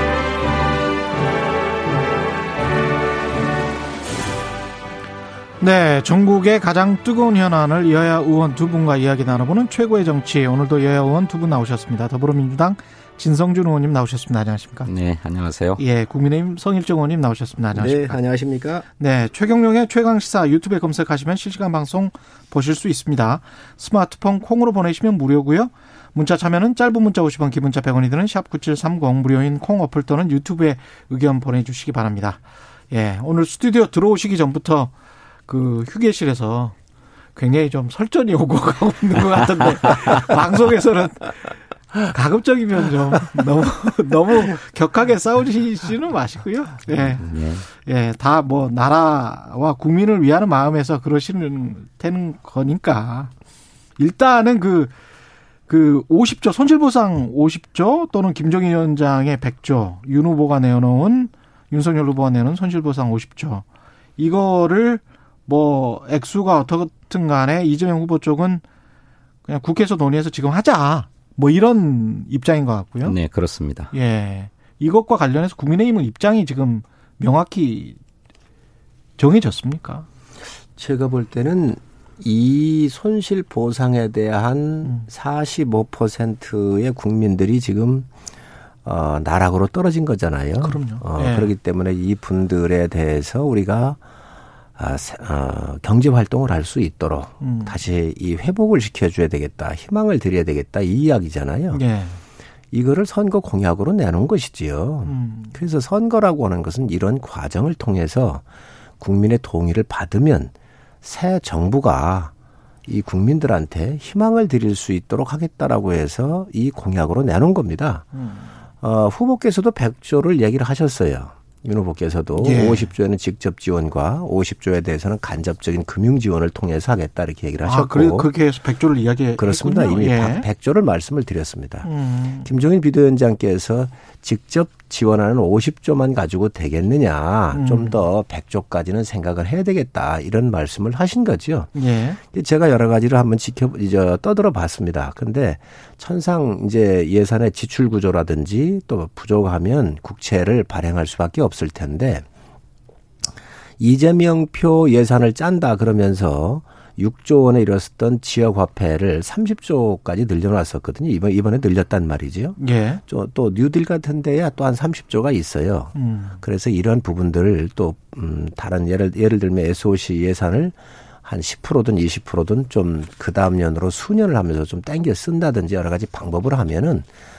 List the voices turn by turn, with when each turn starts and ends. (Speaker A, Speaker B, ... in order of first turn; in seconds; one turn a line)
Speaker A: 5.6-14.9
Speaker B: 14.9-15.8
Speaker A: 15.8-18.2
Speaker C: 17.7-18.9
Speaker A: 19.0-32.4
Speaker A: 32.9-34.9
Speaker A: 35.5-36.8
Speaker A: 37.4-41.5
Speaker A: 42.0-53.3
Speaker B: 47.0-47.6
Speaker A: 54.0-54.9
Speaker A: 55.7-63.6
Speaker A: 64.2-68.6
Speaker A: 69.5-73.2
Speaker B: 73.0-73.9
Speaker A: 73.9-78.0
Speaker A: 79.2-80.1
Speaker C: 80.8-88.1
Speaker C: 88.8-94.0
Speaker A: 90.6-91.5
Speaker C: 94.8-101.8
Speaker A: 97.4-97.7
Speaker A: 101.7-102.2
Speaker C: 102.7-108.4
Speaker A: 105.1-105.5
Speaker C: 109.0-110.5
Speaker C: 111.0-112.3
Speaker C: 112.9-118.1
Speaker A: 118.2-118.4
Speaker C: 118.8-128.3
Speaker A: 122.4-122.9
Speaker A: 127.7-130.5
Speaker C: 129.4-131.9
Speaker A: 131.8-132.5
Speaker C: 132.4-141.7
Speaker A: 137.5-138.0
Speaker A: 141.8-142.2
Speaker C: 142.2-152.2
Speaker C: 153.8-177.1
Speaker A: 162.6-163.0
Speaker A: 165.9-166.4